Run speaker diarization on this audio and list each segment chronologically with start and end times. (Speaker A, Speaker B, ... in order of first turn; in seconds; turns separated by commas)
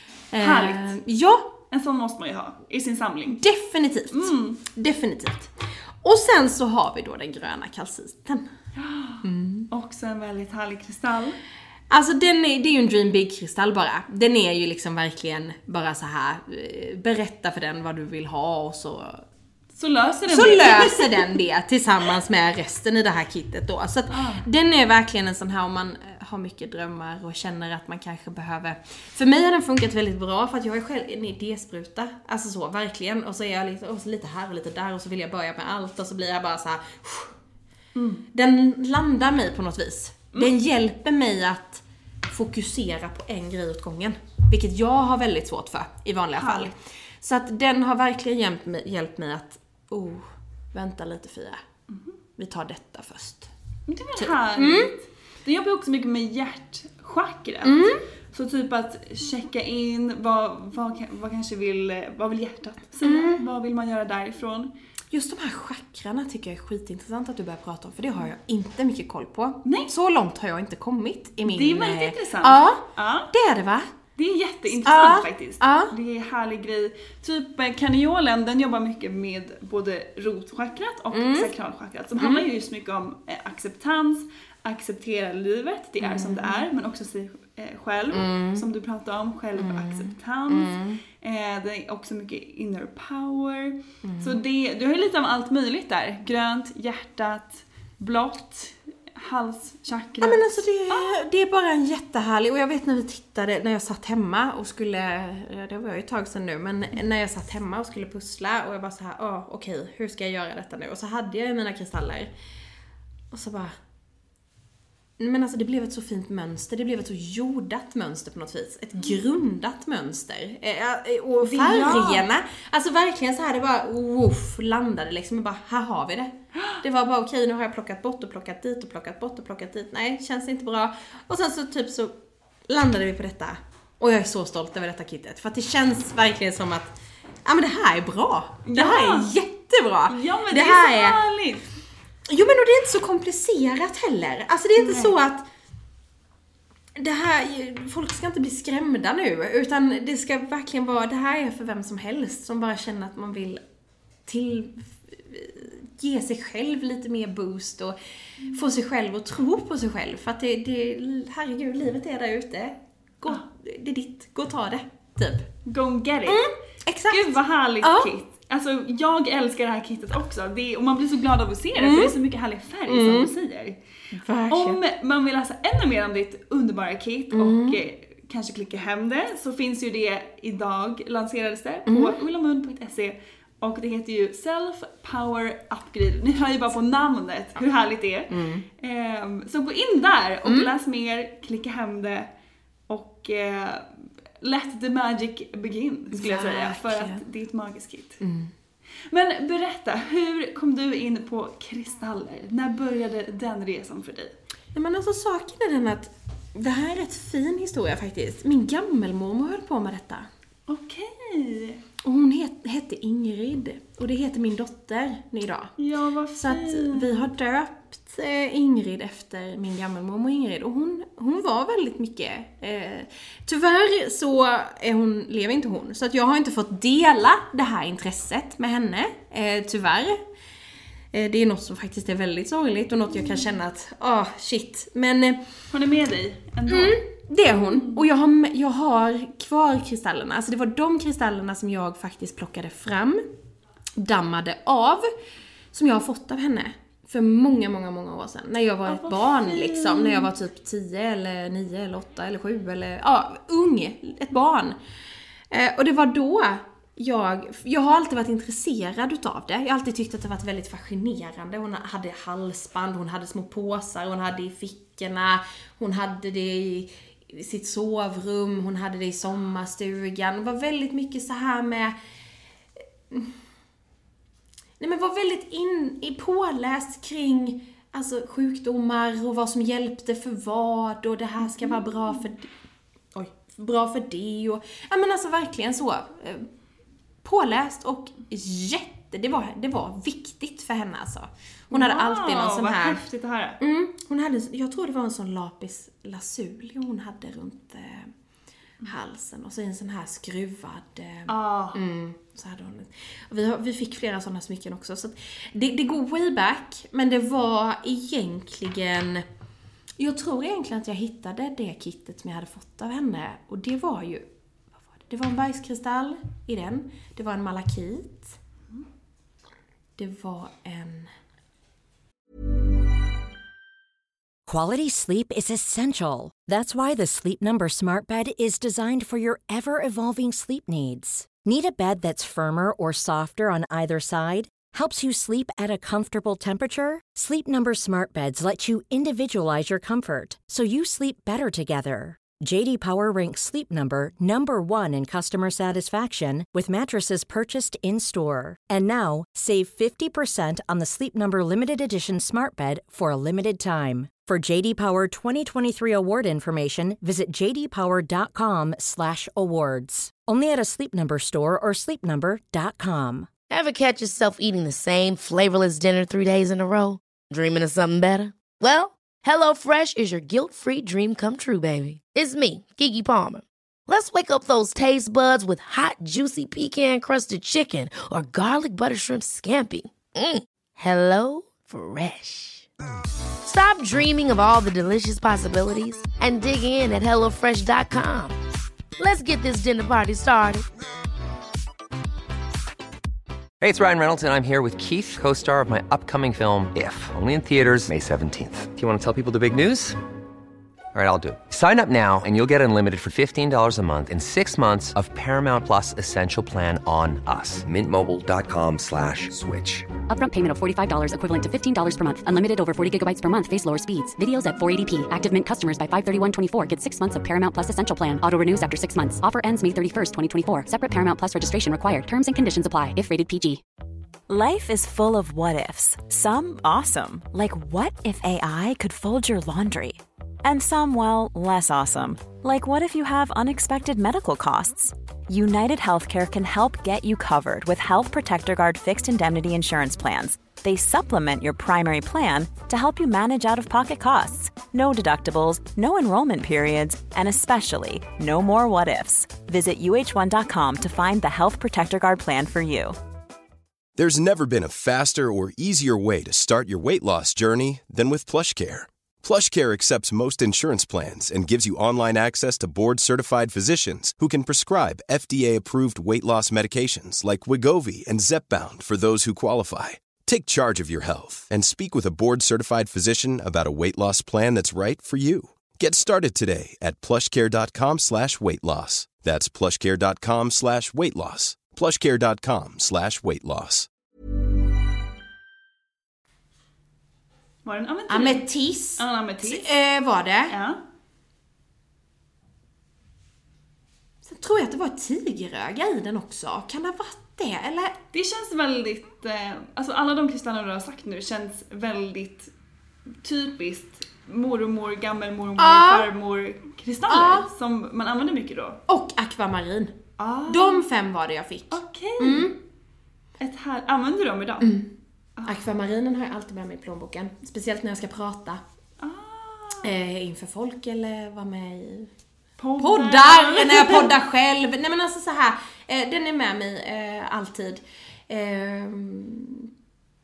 Speaker A: 0.3-1.6, Speaker B: 0.4-0.9, Speaker B: 1.7-3.4, Speaker A: 3.2-8.5, Speaker B: 4.1-4.6, Speaker B: 8.8-11.4, Speaker A: 9.2-9.7, Speaker A: 11.9-19.2, Speaker B: 19.8-21.3, Speaker A: 20.3-37.3, Speaker B: 24.1-24.4, Speaker B: 37.9-38.2, Speaker A: 38.3-51.6, Speaker B: 46.4-46.7, Speaker A: 52.4-53.5, Speaker B: 53.9-64.7, Speaker A: 54.2-54.9, Speaker A: 57.6-58.0, Speaker A: 63.0-63.4, Speaker A: 65.1-73.9, Speaker B: 69.6-69.9, Speaker B: 71.4-73.3, Speaker B: 74.2-101.2, Speaker A: 74.8-75.9, Speaker A: 81.1-81.5, Speaker A: 82.2-82.5, Speaker A: 86.0-86.6, Speaker A: 88.1-88.7, Speaker A: 89.5-91.0, Speaker A: 94.0-94.4, Speaker A: 100.2-112.3, Speaker A: 113.3-113.8, Speaker A: 115.2-141.2, Speaker B: 121.4-122.2, Speaker B: 138.6-139.3, Speaker B: 140.1-141.7, Speaker A: 142.3-145.5, Speaker B: 144.8-145.1, Speaker A: 146.9-153.6, Speaker A: 154.3-158.0, Speaker A: 158.5-165.5, Speaker B: 165.7-166.5, Speaker A: 166.2-168.1, Speaker B: 167.1-173.8, Speaker A: 171.8-172.1, Speaker A: 172.9-173.3, Speaker A: 174.1-174.8, Speaker B: 174.5-192.3, Speaker A: 177.3-177.8, Speaker A: 181.9-182.2, Speaker A: 188.3-188.7, Speaker A: 190.4-190.7, Speaker B: 192.9-193.9, Speaker B: 194.4-198.2, Speaker A: 196.1-197.2, Speaker A: 198.2-198.5, Speaker B: 199.1-204.3, Speaker A: 204.7-210.3, Speaker B: 210.7-211.8, Speaker A: 212.0-215.7, Speaker B: 215.8-217.1, Speaker A: 216.3-230.2, Speaker A: 231.1-235.4, Speaker B: 235.7-237.0, Speaker A: 236.7-243.2, Speaker A: 244.0-245.1, Speaker A: 245.7-254.8, Speaker B: 248.9-250.3, Speaker A: 255.5-271.9, Speaker A: 274.8-282.5, Speaker A: 283.1-286.5, Speaker A: 287.2-293.0, Speaker B: 291.7-293.6, Speaker A: 293.6-298.1, Speaker A: 298.8-309.2, Speaker B: 301.3-301.8, Speaker A: 310.0-314.3, Speaker A: 314.8-318.4, Speaker A: 320.0-321.1, Speaker C: 324.5-363.3, Speaker D: 363.5-382.7, Speaker D: 383.4-388.3, Speaker D: 389.0-390.6, Speaker E: 393.6-400.0, Speaker E: 400.9-409.9, Speaker F: 410.1-423.6, Speaker G: 424.3-453.0, Speaker H: 453.9-483.9, Speaker B: 487.6-488.4, Speaker A: 488.1-490.5, Speaker B: 489.0-489.7, Speaker B: 490.5-490.8, Speaker A: 494.2-498.0, Speaker B: 498.1-502.5, Speaker B: 503.2-508.8, Speaker A: 505.6-506.1, Speaker A: 507.1-507.5, Speaker A: 508.9-512.6, Speaker B: 510.2-510.9, Speaker B: 511.7-512.6, Speaker B: 513.4-514.8, Speaker A: 514.6-514.9, Speaker A: 515.4-518.6, Speaker B: 519.0-519.9, Speaker A: 519.8-522.1, Speaker B: 522.6-524.1, Speaker A: 522.8-529.7